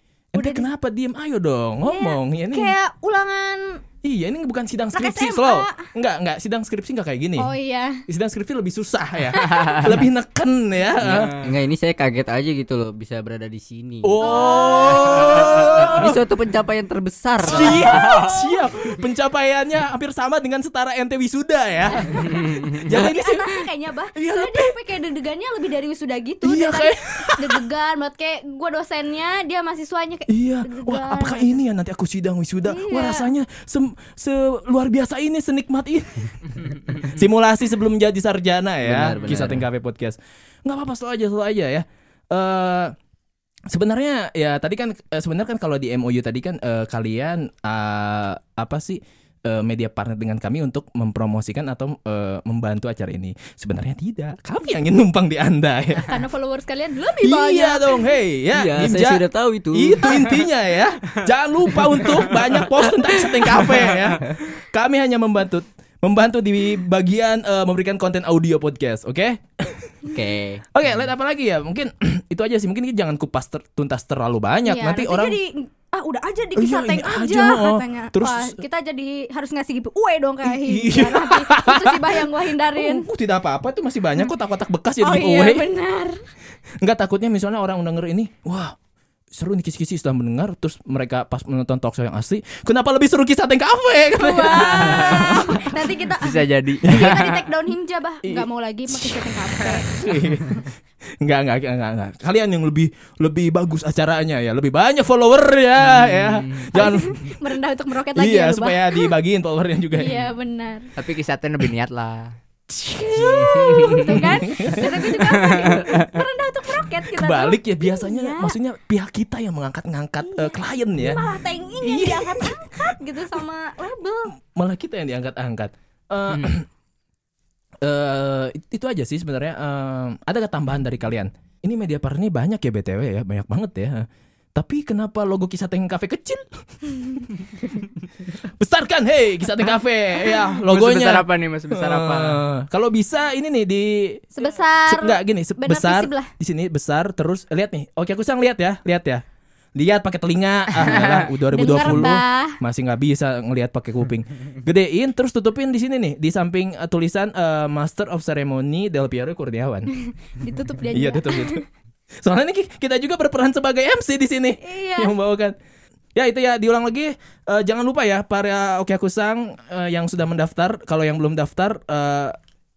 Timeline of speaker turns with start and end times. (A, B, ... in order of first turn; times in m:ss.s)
0:00.3-0:02.7 A
0:00.3-0:00.6 B
0:01.8-0:03.8 B
0:04.0-0:07.5 A
0:04.9-0:05.8 B
0:07.4-0:08.0 B
0:08.1-0:11.4 A
0:09.4-0:09.8 B
0:11.0-0:14.2 C
0:14.0-0:16.2 A
0:14.2-0:16.1 B
0:15.5-0:18.1 C
0:17.5-0:23.6 A
0:17.5-0:18.7 B
0:21.9-0:31.6 B
0:24.1-0:24.8 A
0:26.4-0:27.6 A
0:30.3-0:42.9 A
0:32.6-0:33.3 B
0:38.8-0:39.6 C
0:43.7-0:56.1 A
0:56.0-0:58.0 B
0:57.2-1:09.9 A
0:58.5-1:00.3 C
1:03.0-1:04.1 C
1:10.1-1:10.6 C
1:10.7-1:15.4 A
1:14.6-1:23.0 B
1:16.6-1:18.6 A
1:20.4-1:25.7 A
1:25.0-1:26.2 B
1:26.8-1:28.8 A
1:29.3-1:35.6 A
1:34.2-1:40.6 B
1:36.2-1:37.4 D
1:36.8-1:37.3 A
1:38.2-1:40.6 A
1:41.2-1:47.2 A
1:45.8-1:46.9 D
1:46.8-1:49.1 B
1:48.2-1:50.3 A
1:50.0-1:50.8 B
1:51.0-1:52.3 D
1:52.7-1:55.5 A
1:53.0-1:58.5 B
1:53.3-1:54.3 D
1:55.2-1:56.2 D
1:57.1-2:01.2 A
2:00.3-2:04.3 B
2:01.8-2:02.8 A
2:04.4-2:06.6 A
2:06.3-2:06.6 D
2:07.8-2:16.4 A
2:18.4-2:24.3 A
2:20.6-2:22.4 D
2:24.4-2:26.3 B
2:24.9-2:29.2 A
2:29.8-2:39.9 A
2:30.8-2:31.3 D
2:31.5-2:32.6 B
2:40.0-2:41.6 B
2:40.9-2:41.6 A
2:42.2-2:45.5 A
2:44.6-2:45.1 B
2:46.1-2:52.4 A